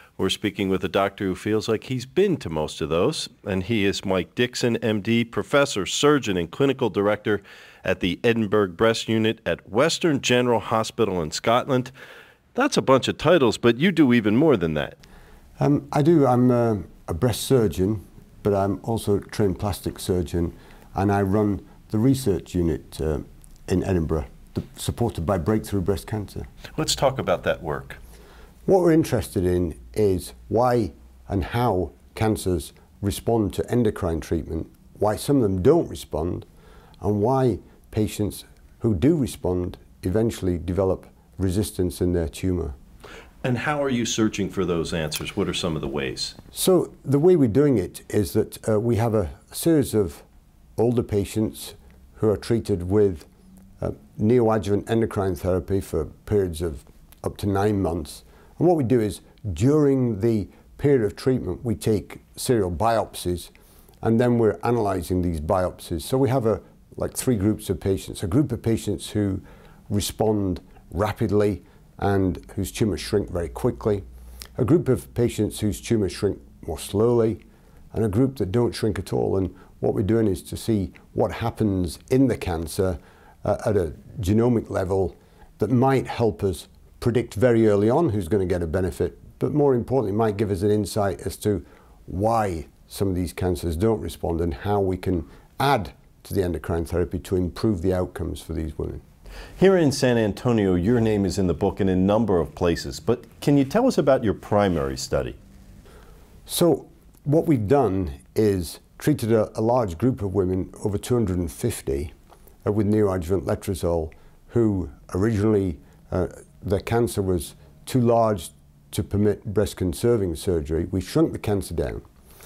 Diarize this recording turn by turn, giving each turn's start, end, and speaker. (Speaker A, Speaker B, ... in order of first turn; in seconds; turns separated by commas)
Speaker A: 0.2-11.9, Speaker A: 12.5-14.9, Speaker B: 15.6-26.5, Speaker A: 26.8-28.0, Speaker B: 28.6-36.5, Speaker B: 37.0-42.7, Speaker A: 43.4-46.3, Speaker B: 46.5-50.2, Speaker B: 50.8-53.3, Speaker B: 53.8-63.5, Speaker B: 64.0-74.0, Speaker B: 74.6-77.4, Speaker B: 77.9-99.0, Speaker A: 99.6-105.4, Speaker B: 106.5-112.1, Speaker B: 112.6-122.0